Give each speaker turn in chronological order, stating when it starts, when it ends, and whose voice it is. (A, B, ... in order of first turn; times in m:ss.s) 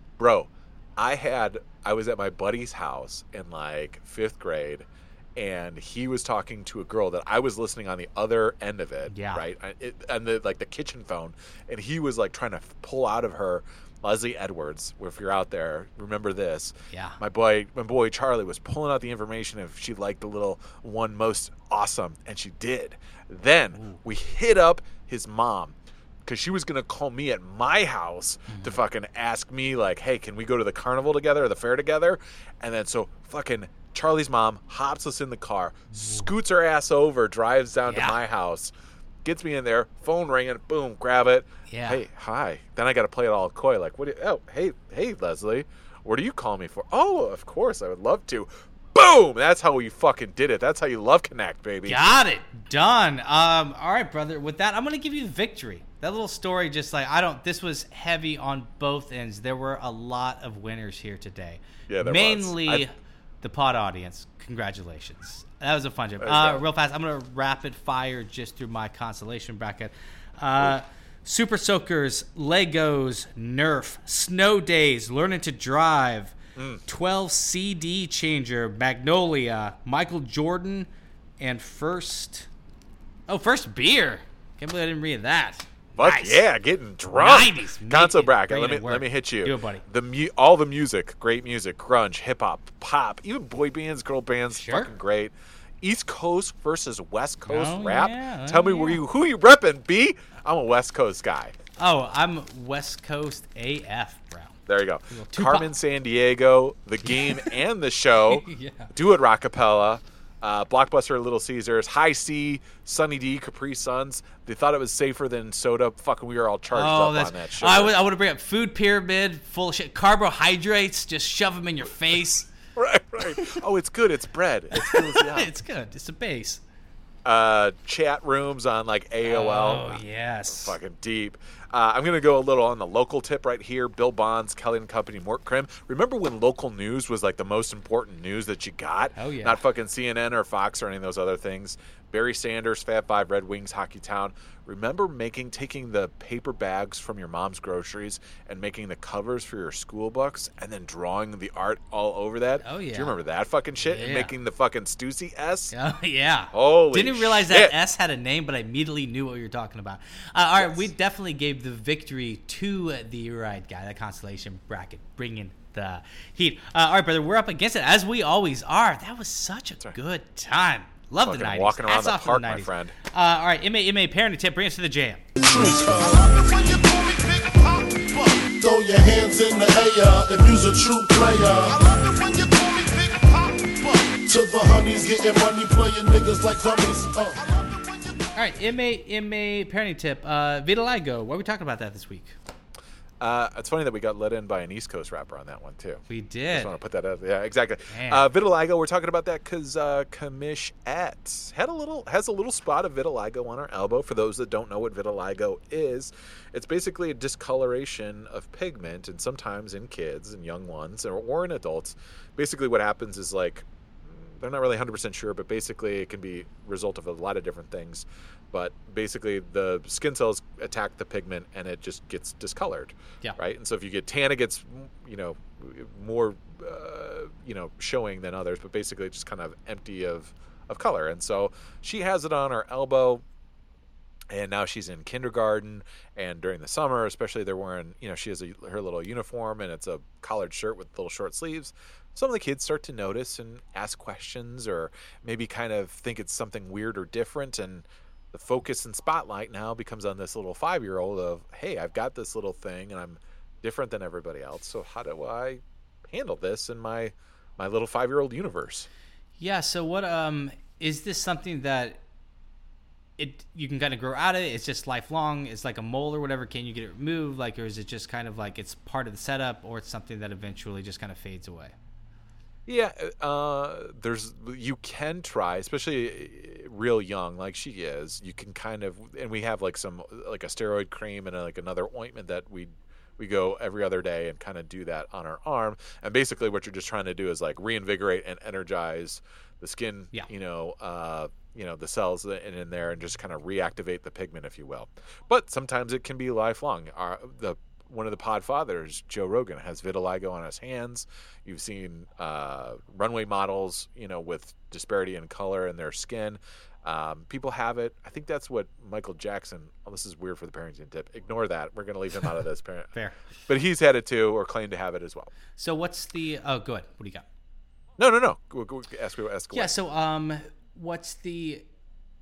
0:00.2-0:38.7 A
0:09.1-0:09.4 B
0:16.9-0:17.2 B
0:28.5-0:28.8 B
0:35.9-0:36.3 B
0:37.8-0:38.2 B
0:39.2-0:52.0 A
0:41.7-0:42.0 B
0:51.8-1:16.4 B
1:01.9-1:02.8 A
1:06.2-1:06.6 A
1:16.6-1:16.8 A
1:16.9-1:20.9 B
1:21.4-1:22.5 B
1:23.3-1:26.4 B
1:26.0-1:41.6 A
1:27.1-1:29.8 B
1:34.5-1:34.9 B
1:37.5-1:39.0 B
1:41.8-1:44.6 B
1:44.7-1:57.9 A
1:45.1-1:45.7 B
1:47.1-1:47.5 B
1:48.3-1:48.9 B
1:56.7-2:02.5 B
2:02.8-2:05.5 A
2:04.7-2:06.6 B
2:07.2-2:35.7 A
2:09.2-2:10.8 B
2:19.2-2:19.6 B
2:32.6-2:33.2 B
2:33.9-2:34.3 B
2:35.7-2:55.2 B
2:36.5-2:37.8 A
2:40.6-2:40.9 A
2:51.2-2:52.9 A
2:55.4-3:08.2 C
3:08.4-3:12.4 B
3:13.2-3:53.2 A
3:16.1-3:16.7 B
3:17.9-3:18.3 B
3:54.3-4:18.9 A
4:19.4-4:22.0 B
4:23.2-4:31.8 B
4:32.7-5:12.9 A
5:13.5-5:15.3 A
5:15.6-5:17.3 B
5:18.0-5:19.7 A
5:19.5-5:21.6 B